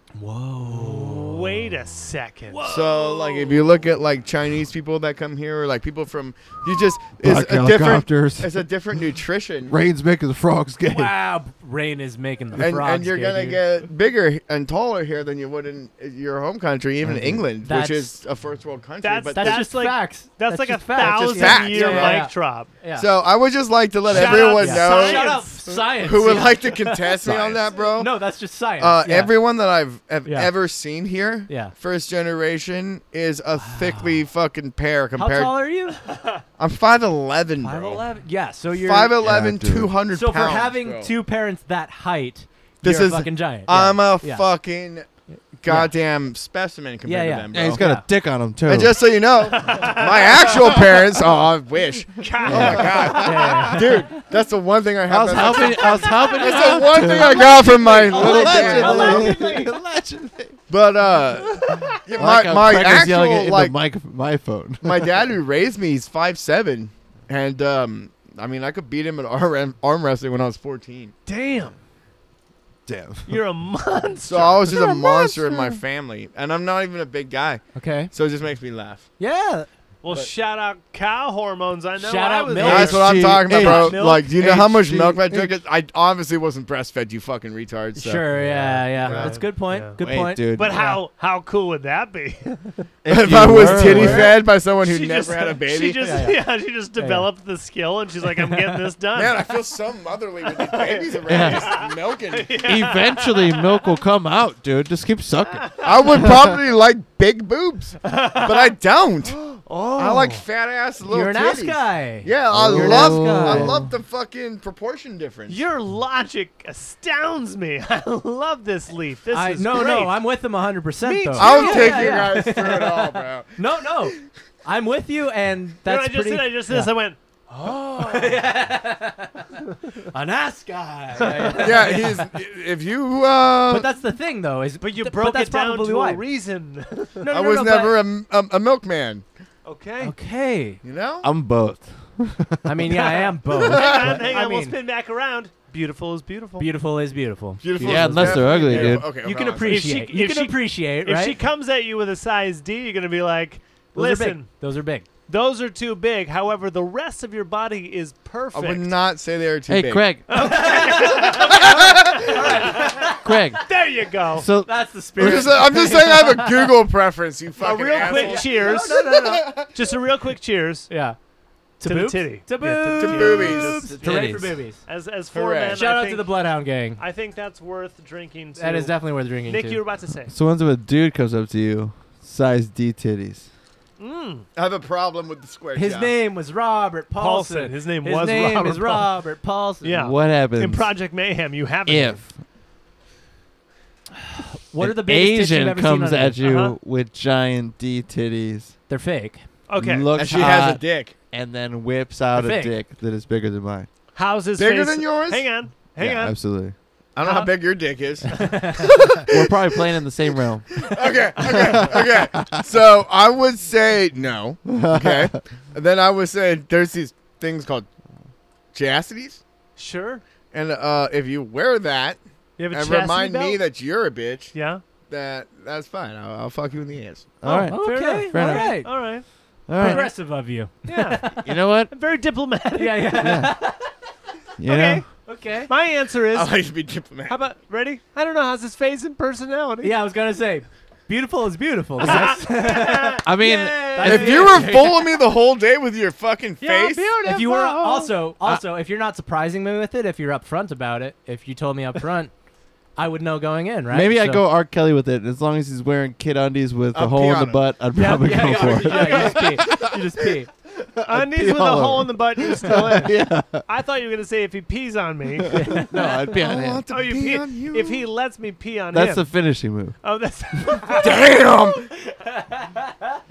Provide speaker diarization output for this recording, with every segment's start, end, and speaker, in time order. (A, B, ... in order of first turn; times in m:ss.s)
0:00.2-0:01.6 A
0:00.7-0:03.7 B
0:02.6-0:09.7 C
0:07.2-0:08.6 D
0:09.7-0:11.1 D
0:10.9-0:13.6 A
0:12.5-0:19.7 C
0:17.0-0:17.4 D
0:17.6-0:18.1 A
0:19.0-0:22.7 B
0:19.3-0:23.1 A
0:21.0-0:22.3 C
0:22.9-0:28.2 C
0:24.1-0:25.8 B
0:24.1-0:29.3 A
0:27.2-0:27.6 D
0:28.8-0:35.6 C
0:30.2-0:30.5 A
0:31.5-0:31.7 A
0:33.6-0:34.2 A
0:35.2-0:36.0 A
0:36.0-0:36.4 B
0:36.6-0:38.0 C
0:37.6-0:39.2 A
0:38.7-0:41.1 C
0:39.2-0:39.9 D
0:40.1-0:44.5 A
0:42.8-0:45.1 C
0:45.3-0:45.9 A
0:45.6-0:47.8 C
0:47.0-0:48.0 A
0:47.5-0:48.9 D
0:48.6-0:59.4 C
0:49.4-0:51.0 B
0:52.2-0:54.1 B
0:52.4-0:53.7 D
0:53.2-0:54.1 A
0:55.1-1:00.6 D
0:55.5-0:59.6 B
0:56.8-0:59.7 A
1:00.7-1:03.8 C
1:02.2-1:05.1 D
1:04.8-1:11.1 C
1:11.2-1:11.8 B
1:12.9-1:13.4 D
1:13.3-1:14.7 B
1:14.2-1:19.1 C
1:14.7-1:15.8 D
1:17.7-1:18.1 A
1:19.2-1:19.7 A
1:20.0-1:23.1 B
1:22.0-1:24.3 A
1:22.6-1:25.5 D
1:22.6-1:28.3 C
1:27.9-1:31.0 A
1:28.3-1:29.1 D
1:28.9-1:29.4 C
1:29.0-1:30.0 B
1:30.0-1:30.7 D
1:30.5-1:32.9 B
1:33.0-1:34.4 D
1:33.1-1:36.1 C
1:33.5-1:34.4 A
1:33.9-1:39.4 B
1:36.0-1:36.4 A
1:37.0-1:37.3 A
1:38.5-1:38.8 A
1:39.1-1:42.7 C
1:40.5-1:43.9 B
1:41.3-1:41.8 D
1:42.6-1:45.7 D
1:45.6-1:46.0 B
1:45.8-1:55.6 C
1:48.0-1:48.7 B
1:49.6-1:50.4 B
1:51.0-1:53.9 A
1:52.5-1:53.9 D
1:55.5-2:00.2 B
1:59.3-2:06.9 A
2:01.0-2:02.2 B
2:01.3-2:03.5 C
2:05.8-2:08.4 B
2:07.9-2:09.5 A
2:10.1-2:12.3 A
2:11.2-2:12.0 B
2:11.6-2:13.9 C
2:13.7-2:16.2 A
2:14.8-2:17.3 B
2:17.2-2:17.9 A
2:17.3-2:19.2 C
2:19.6-2:20.1 B
2:20.0-2:20.8 A
2:20.8-2:21.3 C
2:21.2-2:22.9 D
2:22.6-2:24.7 A
2:22.9-2:26.7 B
2:23.5-2:24.3 C
2:26.6-2:31.4 A
2:27.6-2:29.9 C
2:27.8-2:29.1 D
2:29.5-2:34.5 B
2:33.9-2:35.0 A
2:35.3-2:38.9 B
2:38.5-2:40.1 C
2:39.7-2:40.3 D
2:40.3-2:44.5 B
2:40.3-2:43.7 A
2:41.5-2:42.5 C
2:43.2-2:43.6 D
2:44.3-2:45.6 D
2:44.6-2:46.7 A
2:45.2-2:49.8 C
2:47.6-2:50.9 B
2:47.9-2:49.3 A
2:50.9-2:51.2 A
2:51.8-2:54.8 A
2:51.8-2:56.3 B
2:53.0-2:53.9 C
2:54.0-2:54.5 D
2:55.3-2:55.8 C
2:55.7-2:57.0 A
2:57.0-3:00.3 B
2:58.6-2:59.8 A
3:00.3-3:03.5 D
3:04.0-3:04.4 B
3:04.6-3:06.1 C
3:05.7-3:09.9 A
3:07.2-3:09.1 B
3:09.8-3:12.2 B
3:09.9-3:10.9 D
3:11.8-3:12.3 D
3:14.4-3:16.4 A
3:14.8-3:18.7 D
3:16.4-3:16.8 B
3:18.9-3:19.4 A
3:19.7-3:20.1 B
3:19.8-3:23.9 D
3:20.1-3:21.1 C
3:22.3-3:22.7 A
3:24.1-3:26.4 B
3:24.6-3:25.5 C
3:26.0-3:26.7 D
3:27.1-3:29.9 C
3:28.3-3:28.9 A
3:29.3-3:30.8 D
3:30.7-3:37.9 C
3:31.4-3:32.4 D
3:34.6-3:35.4 D
3:38.7-3:39.4 C
3:39.8-3:40.2 B
3:40.5-3:42.2 C
3:42.6-3:43.6 B
3:42.7-3:44.5 C
3:44.5-3:44.8 B
3:45.1-3:47.3 C
3:47.4-3:48.7 D
3:47.4-3:50.2 B
3:47.5-3:48.9 A
3:49.7-3:50.1 D
3:49.8-3:51.5 A
3:50.8-3:53.2 B
3:51.4-3:51.9 D
3:52.8-3:53.9 A
3:53.2-3:53.6 D
3:54.6-3:55.0 D
3:54.6-3:55.0 B
3:55.2-3:55.7 A
3:55.7-3:56.6 B
3:56.3-3:57.4 C
3:57.3-3:59.9 B
3:59.8-4:05.0 A
4:02.0-4:03.3 B
4:03.2-4:04.7 D
4:03.9-4:04.6 B
4:04.0-4:07.2 C
4:06.6-4:08.1 B
4:07.2-4:12.3 A
4:13.0-4:14.4 A
4:13.9-4:19.9 D
4:16.9-4:17.6 C
4:17.9-4:20.5 A
4:18.0-4:19.6 B
4:20.8-4:23.6 D
4:21.0-4:25.9 B
4:25.4-4:26.8 D
4:25.5-4:26.3 A
4:26.2-4:28.1 C
4:26.9-4:29.3 B
4:28.9-4:30.0 D
4:30.0-4:31.3 B
4:30.9-4:31.9 C
4:32.6-4:32.9 A